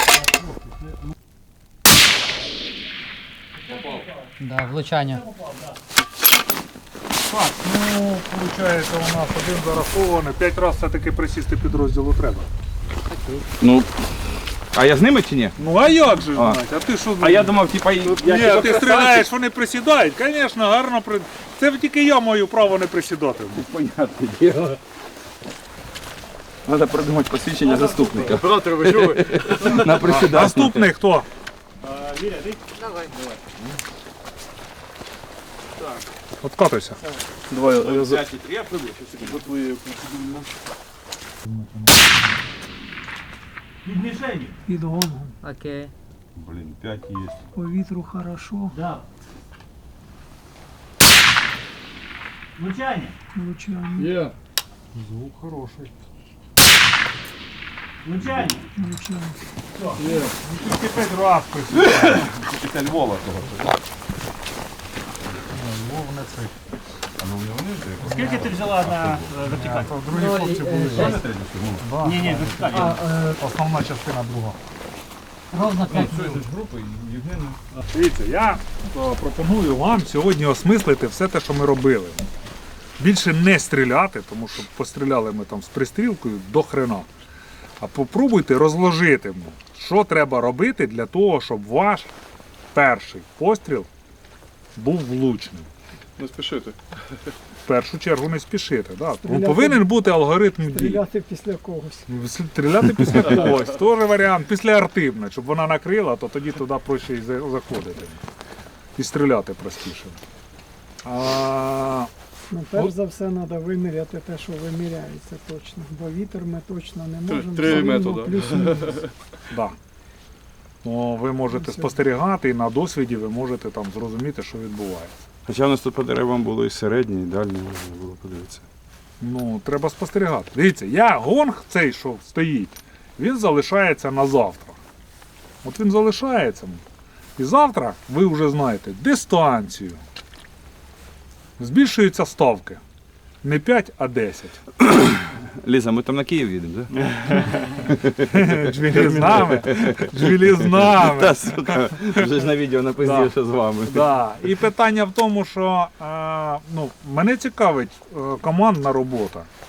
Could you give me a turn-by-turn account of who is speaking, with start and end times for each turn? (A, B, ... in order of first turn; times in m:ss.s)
0:00.1-0:01.1 A
0:03.6-0:04.4 A
0:04.4-0:05.2 B
0:05.0-0:05.8 A
0:07.3-0:12.5 C
0:13.5-0:14.2 D
0:14.7-0:15.6 D
0:15.6-0:17.6 C
0:16.3-0:16.6 D
0:17.2-0:19.2 D
0:18.0-0:18.8 E
0:18.2-0:23.7 C
0:23.5-0:24.8 D
0:26.6-0:30.9 D
0:27.8-0:28.4 A
0:27.9-0:29.8 E
0:29.7-0:31.3 C
0:31.8-0:32.7 A
0:32.8-0:33.1 B
0:36.4-0:37.0 C
0:37.5-0:38.3 E
0:37.7-0:39.6 D
0:39.1-0:40.4 E
0:41.4-0:42.2 C
0:43.8-0:44.6 A
0:44.7-0:45.4 F
0:45.4-0:45.9 B
0:46.4-0:47.4 D
0:47.6-0:48.8 F
0:48.7-0:49.1 A
0:52.6-0:53.2 A
0:53.4-0:54.2 F
0:54.0-0:54.3 E
0:54.9-0:55.9 C
0:58.0-0:58.7 A
0:58.8-0:59.4 F
0:59.7-1:00.0 A
1:00.0-1:00.4 E
1:00.4-1:02.3 C
1:01.7-1:03.7 D
1:05.5-1:06.5 C
1:07.2-1:09.5 D
1:08.0-1:10.0 A
1:09.5-1:11.2 C
1:10.0-1:11.2 B
1:10.8-1:12.0 D
1:11.8-1:14.6 C
1:12.0-1:13.0 A
1:12.7-1:13.4 B
1:15.5-1:16.4 B
1:15.8-1:17.6 D
1:17.9-1:22.3 C
1:23.0-1:27.1 C
1:27.8-1:32.1 C
1:32.7-1:33.9 C
1:34.8-1:35.7 C
1:36.2-1:37.0 E
1:37.7-1:41.0 C
1:39.2-1:39.9 F
1:40.6-1:42.1 F
1:42.1-1:48.2 C
1:49.0-1:50.2 C
1:51.0-1:52.1 C
1:52.5-1:59.0 F
1:57.3-1:59.1 E
1:59.5-1:59.8 C
2:00.8-2:05.2 C
2:01.5-2:01.9 F
2:05.5-2:08.6 D
2:09.2-2:14.8 C
2:15.6-2:16.8 C
2:17.4-2:20.0 C
2:21.6-2:22.8 C
2:23.4-2:24.6 C
2:24.8-2:34.2 D
2:28.2-2:33.3 C
2:33.8-2:39.5 C